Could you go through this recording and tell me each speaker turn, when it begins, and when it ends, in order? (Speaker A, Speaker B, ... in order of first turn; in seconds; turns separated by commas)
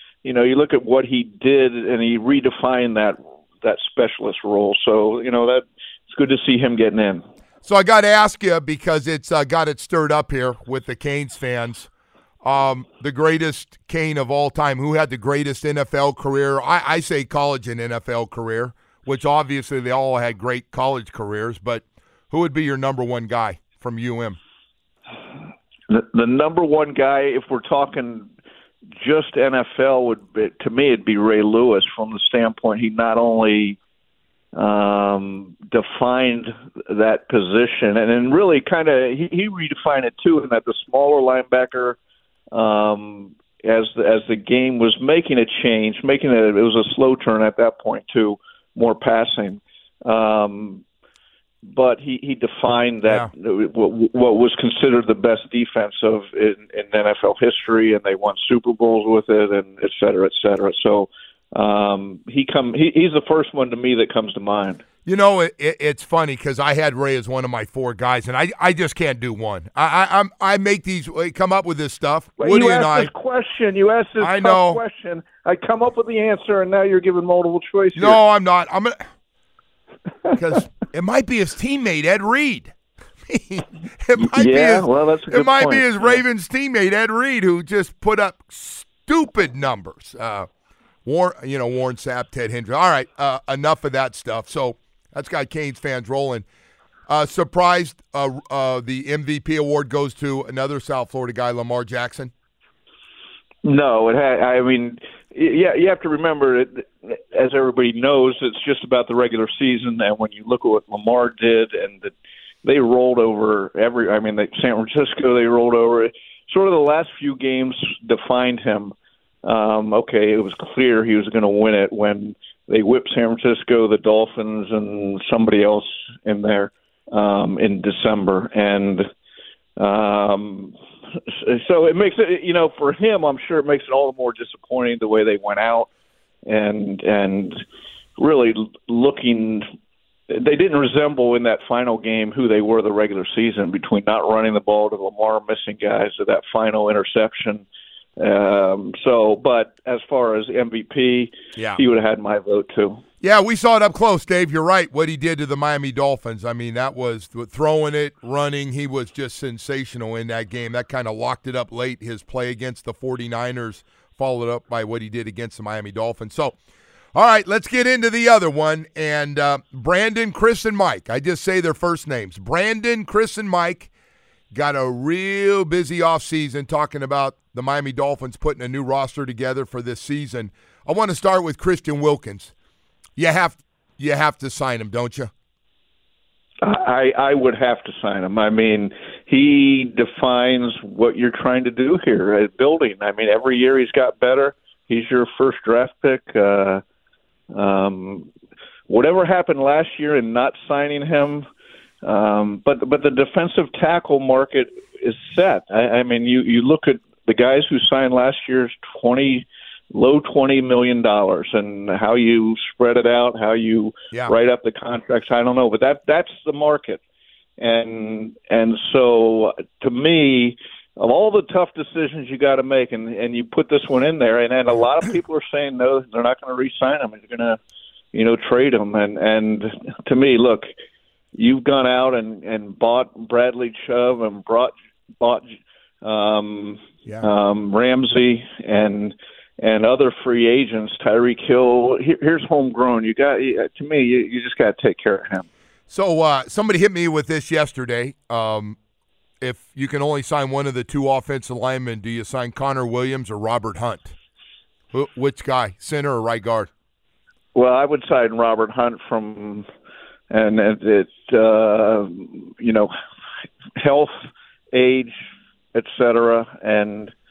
Speaker A: 0.2-7.2, Speaker B: 7.6-11.9, Speaker B: 12.4-24.4, Speaker A: 25.9-28.3, Speaker A: 29.0-33.8, Speaker A: 34.5-42.0, Speaker A: 42.5-50.8, Speaker A: 51.6-64.8, Speaker B: 65.0-73.1, Speaker A: 72.4-78.2, Speaker B: 74.2-74.8, Speaker B: 77.9-79.0, Speaker B: 80.3-82.7, Speaker B: 83.3-90.5, Speaker A: 84.2-86.2, Speaker B: 91.0-96.4, Speaker B: 97.1-102.3, Speaker A: 103.6-129.0, Speaker A: 129.8-130.7, Speaker A: 131.3-135.9, Speaker A: 136.4-137.6, Speaker A: 138.2-139.6, Speaker A: 140.3-147.7, Speaker A: 148.2-153.0, Speaker B: 151.6-151.8, Speaker B: 153.2-166.5, Speaker B: 167.1-173.9, Speaker B: 174.5-182.5, Speaker B: 183.2-185.3, Speaker A: 186.6-196.8, Speaker A: 197.5-198.3, Speaker A: 198.9-201.4, Speaker A: 202.0-217.0, Speaker A: 217.6-227.6, Speaker A: 228.1-230.7, Speaker A: 231.3-245.5, Speaker B: 245.9-248.8, Speaker B: 249.4-254.1, Speaker B: 254.9-256.7, Speaker A: 257.5-259.7, Speaker A: 260.3-262.9, Speaker A: 263.8-265.1, Speaker A: 265.7-267.1